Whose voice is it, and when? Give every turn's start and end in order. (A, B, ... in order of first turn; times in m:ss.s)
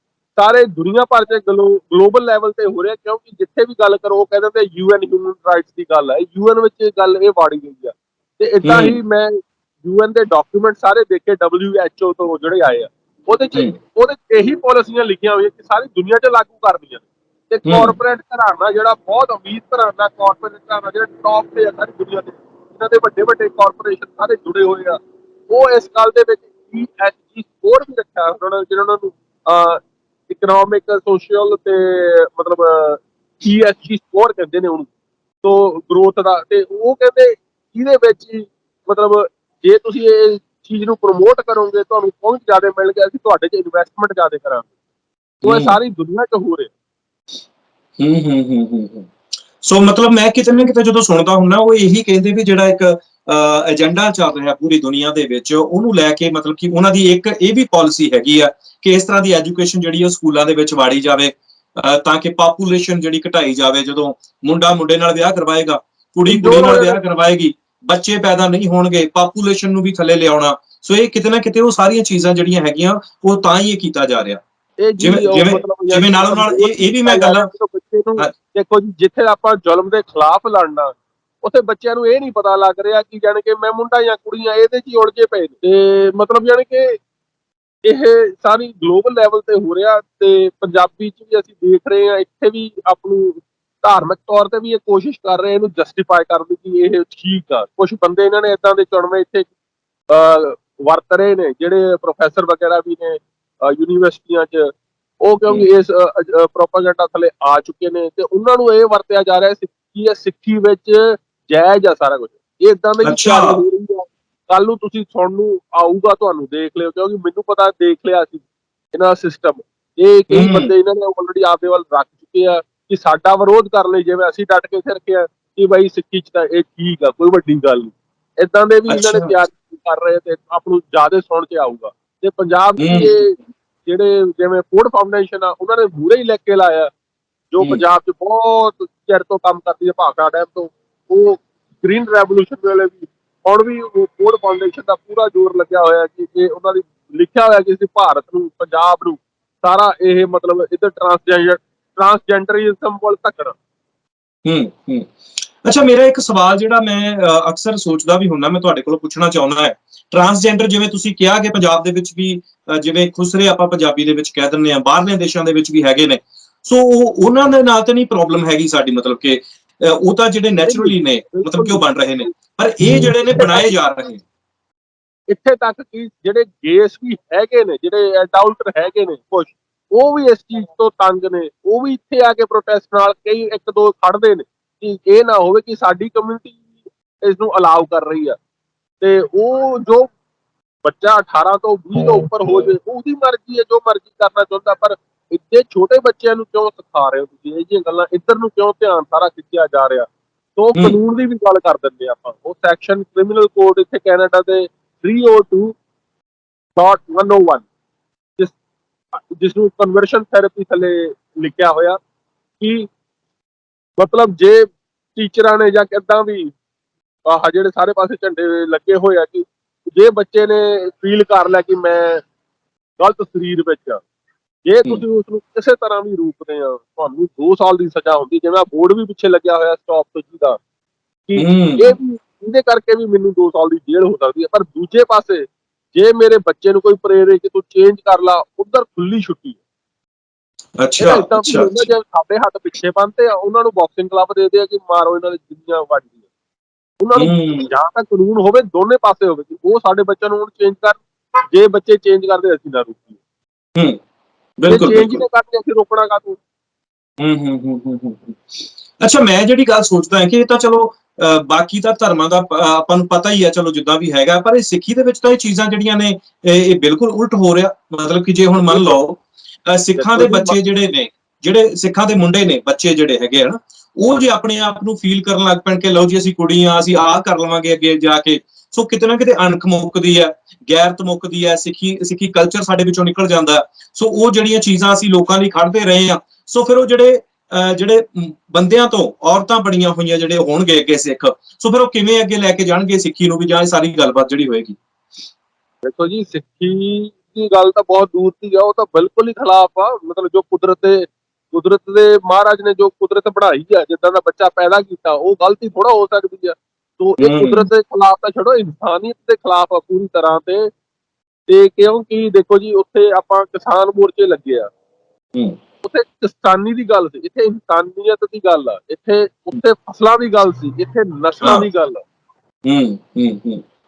0:00.4-0:34.9 A
0:08.6-0:09.0 B
0:17.7-0:18.0 B
0:35.4-0:44.7 A
0:45.4-0:45.8 B
0:45.4-0:46.7 A
0:48.0-1:14.4 B
1:06.3-1:07.0 A
1:14.8-1:27.0 A
1:15.0-1:17.5 B
1:27.8-1:39.5 A
1:40.1-2:16.9 A
1:53.0-1:53.6 B
2:00.3-2:00.7 B
2:08.9-2:09.4 B
2:12.8-2:13.2 B
2:17.5-2:33.5 A
2:34.4-2:54.2 B
2:50.6-2:51.9 A
2:53.3-2:53.7 A
2:55.3-3:06.6 A
3:07.2-3:08.4 A
3:09.0-3:10.1 A
3:10.8-3:25.8 A
3:26.8-3:27.7 A
3:29.2-3:32.0 A
3:32.6-3:32.9 A
3:34.0-3:36.5 A
3:37.2-3:42.2 A
3:43.0-3:44.0 A
3:44.7-3:50.6 A
3:51.3-3:59.6 A
3:51.4-3:52.0 B
4:00.8-4:01.9 B
4:01.0-4:06.2 A
4:07.0-4:11.0 A
4:07.2-4:07.7 B
4:11.5-4:13.2 A
4:13.8-4:14.0 B
4:14.6-4:15.2 B
4:14.7-4:16.4 A
4:17.2-4:54.8 B
4:28.7-4:29.0 A
4:30.0-4:30.6 A
4:55.8-5:10.7 A
5:07.2-5:07.7 B
5:11.5-5:14.7 A
5:15.8-5:22.0 A
5:22.6-5:23.6 B